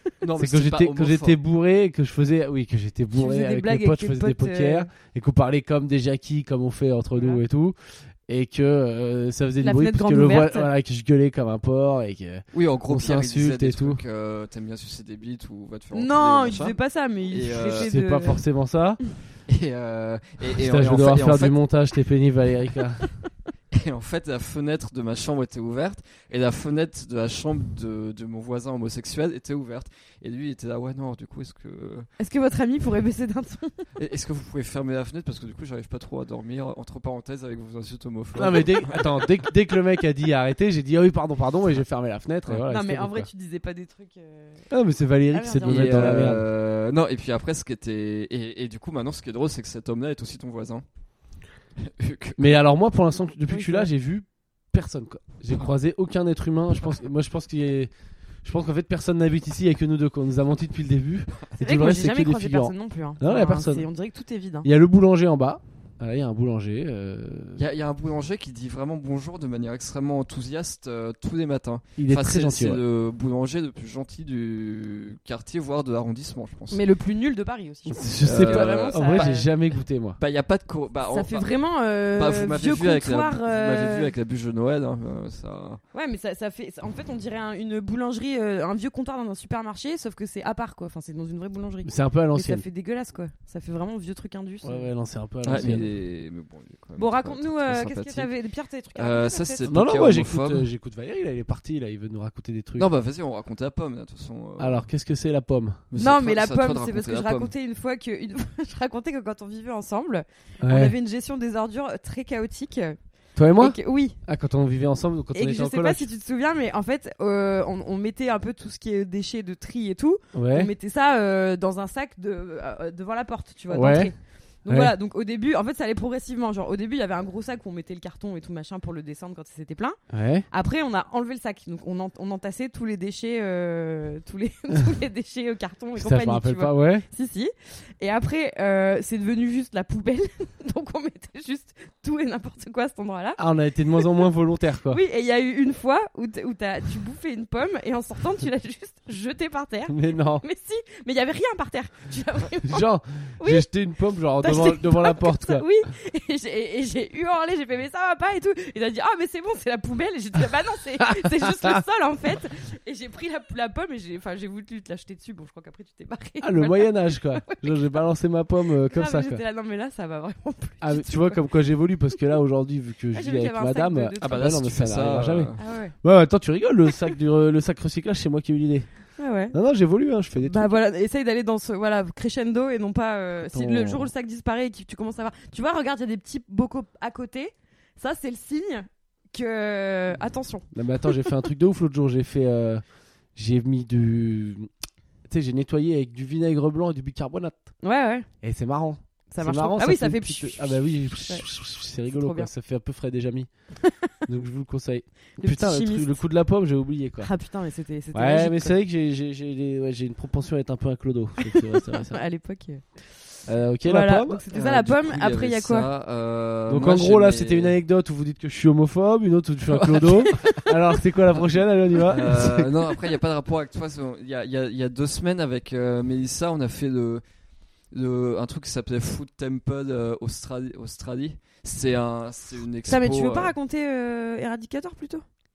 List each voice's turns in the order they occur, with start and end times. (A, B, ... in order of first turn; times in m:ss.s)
0:00.2-0:01.4 A
0:00.4-0:07.8 B
0:03.1-0:04.9 C
0:07.2-0:07.4 C
0:08.3-0:14.0 B
0:09.6-0:10.7 C
0:12.5-0:16.8 A
0:15.9-0:18.4 C
0:17.3-0:17.9 A
0:17.7-0:19.0 B
0:19.5-0:21.5 A
0:20.6-0:23.1 B
0:23.7-0:32.1 A
0:32.2-0:33.8 C
0:34.0-0:39.2 A
0:38.4-0:43.3 B
0:42.7-0:44.7 C
0:44.7-0:46.5 B
0:45.3-0:46.3 C
0:45.6-0:50.8 A
0:51.8-0:52.6 A
0:52.4-0:57.9 B
0:53.5-0:53.9 C
0:58.4-1:03.9 B
1:01.6-1:04.7 C
1:04.6-1:07.6 B
1:07.6-1:16.8 A
1:12.0-1:12.8 B
1:16.7-1:19.5 C
1:17.9-1:20.2 B
1:18.2-1:19.5 A
1:20.2-1:21.5 A
1:21.1-1:24.1 C
1:22.1-1:25.8 A
1:25.9-1:34.9 C
1:31.8-1:32.6 B
1:34.6-1:35.9 B
1:35.4-1:38.3 A
1:35.5-1:35.9 C
1:37.0-1:39.7 C
1:39.0-1:40.7 A
1:39.6-1:42.9 B
1:42.8-1:44.8 A
1:44.6-1:45.8 B
1:45.9-1:47.5 A
1:46.0-1:53.0 C
1:50.6-1:50.9 B
1:53.4-1:56.1 B
1:53.6-1:54.2 C
1:55.3-2:04.1 C
2:00.3-2:00.7 B
2:03.7-2:04.1 B
2:04.6-2:10.0 C
2:04.7-2:04.9 B
2:10.1-2:10.4 B
2:10.5-2:23.4 C
2:16.0-2:17.0 B
2:23.4-2:25.0 B
2:24.9-2:32.9 C
2:29.9-2:30.4 B
2:32.6-2:35.6 B
2:33.4-2:33.7 C
2:34.4-2:47.7 C
2:41.0-2:41.8 B
2:46.4-2:49.4 B
2:48.9-2:51.4 C
2:50.8-2:58.9 B
2:53.1-2:54.6 C
2:54.2-2:55.6 A
2:55.6-2:56.0 C
2:59.2-2:59.6 C
2:59.5-3:00.7 B
3:00.4-3:11.3 C
3:03.5-3:04.1 B
3:10.7-3:12.8 B
3:13.3-3:14.7 B
3:15.3-3:17.7 B
3:17.8-3:18.3 C
3:18.4-3:23.5 B
3:19.3-3:21.4 C
3:22.1-3:22.5 C
3:23.8-3:24.1 C
3:24.2-3:27.3 B
3:25.4-3:26.2 C
3:27.2-3:28.8 C
3:28.1-3:32.2 B
3:31.4-3:32.8 C
3:33.5-3:34.4 B
3:33.8-3:35.9 C
3:34.5-3:37.8 A
3:36.7-3:42.7 B
3:39.7-3:40.8 A
3:42.0-3:47.2 A
3:47.9-3:53.5 A
3:52.8-3:55.2 C